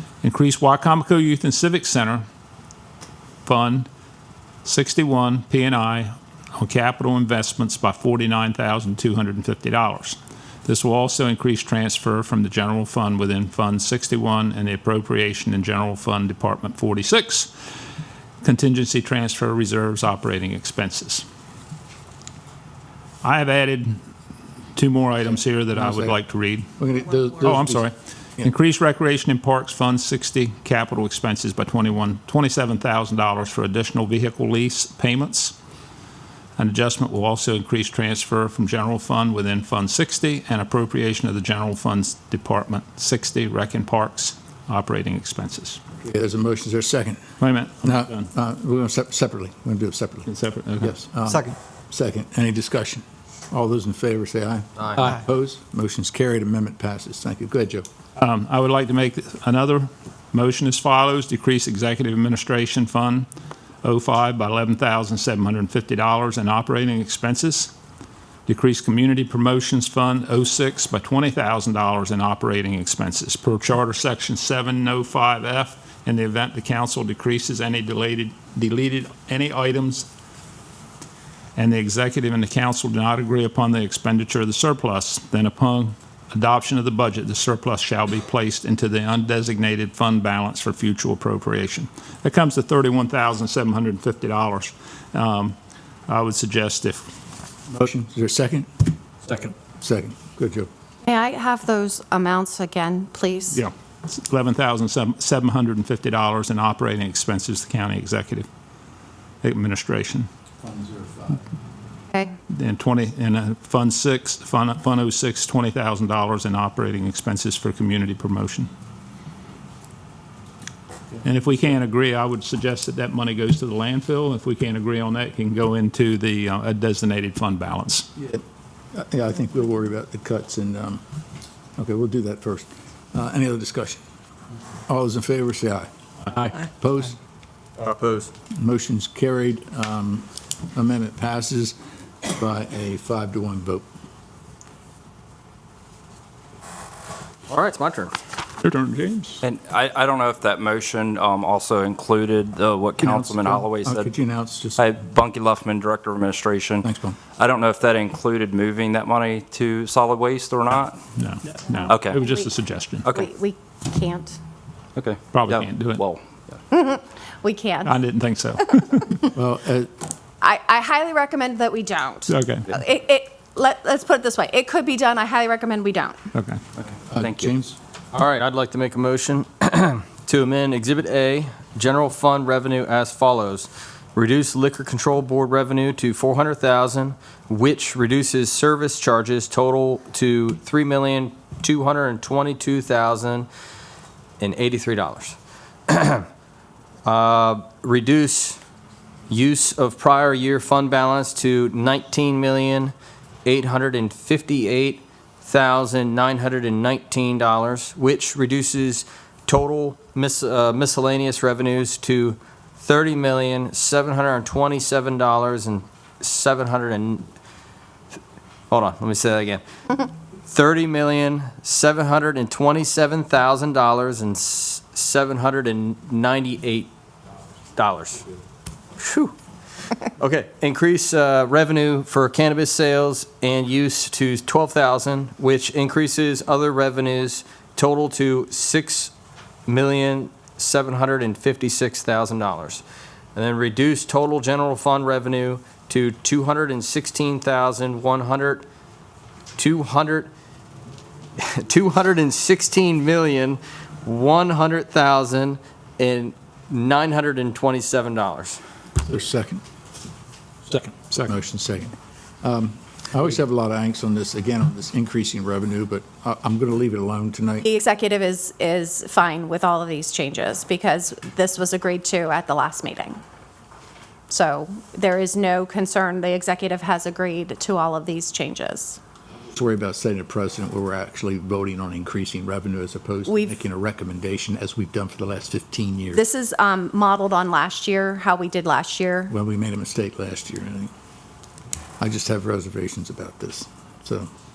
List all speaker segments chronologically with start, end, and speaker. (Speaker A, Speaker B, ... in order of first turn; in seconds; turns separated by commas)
Speaker A: 0.2-2.2, Speaker A: 3.4-3.9, Speaker A: 4.6-17.5, Speaker A: 18.4-21.2, Speaker A: 23.2-24.0, Speaker A: 24.8-26.7, Speaker B: 25.7-26.2, Speaker B: 26.8-28.5, Speaker A: 27.4-35.5, Speaker A: 36.6-45.8, Speaker B: 46.0-47.2, Speaker A: 47.4-48.3, Speaker B: 47.8-50.3, Speaker A: 50.3-51.0, Speaker B: 50.8-57.9, Speaker C: 54.8-55.1, Speaker A: 58.2-63.3, Speaker A: 63.8-67.7, Speaker A: 68.5-80.1, Speaker A: 81.5-95.5, Speaker A: 96.1-97.1, Speaker B: 97.7-100.7, Speaker D: 101.0-103.6, Speaker A: 103.5-108.5, Speaker A: 109.4-110.3, Speaker B: 110.6-111.4, Speaker A: 112.5-118.7, Speaker A: 121.2-128.1, Speaker B: 128.2-128.4, Speaker B: 128.9-131.0, Speaker B: 131.8-134.0, Speaker B: 134.9-137.2, Speaker C: 137.8-138.3, Speaker B: 138.5-143.8, Speaker C: 147.5-148.1, Speaker A: 148.6-149.4, Speaker E: 149.4-154.1, Speaker B: 153.0-154.8, Speaker E: 154.8-161.0, Speaker B: 156.8-157.2, Speaker A: 161.2-163.1, Speaker E: 161.9-162.2, Speaker D: 162.2-162.5, Speaker D: 163.1-164.4, Speaker E: 164.9-166.2, Speaker A: 165.3-166.0, Speaker D: 166.7-168.0, Speaker A: 167.8-169.2, Speaker B: 169.3-169.9, Speaker D: 170.4-176.2, Speaker A: 172.3-172.7, Speaker A: 176.3-176.6, Speaker B: 177.1-177.8, Speaker E: 177.2-177.6, Speaker C: 178.1-193.5, Speaker C: 194.4-195.3, Speaker C: 195.9-196.2, Speaker C: 197.0-198.6, Speaker C: 199.3-202.9, Speaker C: 203.4-217.3, Speaker C: 218.7-226.9, Speaker C: 227.8-228.3, Speaker C: 229.0-229.3, Speaker C: 230.1-239.1, Speaker C: 239.7-242.8, Speaker C: 243.3-248.7, Speaker C: 249.6-250.3, Speaker C: 251.4-258.6, Speaker B: 259.1-259.6, Speaker A: 260.7-261.3, Speaker B: 261.2-267.6, Speaker D: 267.6-273.2, Speaker D: 274.3-279.0, Speaker B: 279.5-286.2, Speaker D: 283.3-283.5, Speaker D: 286.1-289.3, Speaker B: 289.3-290.9, Speaker B: 292.0-294.3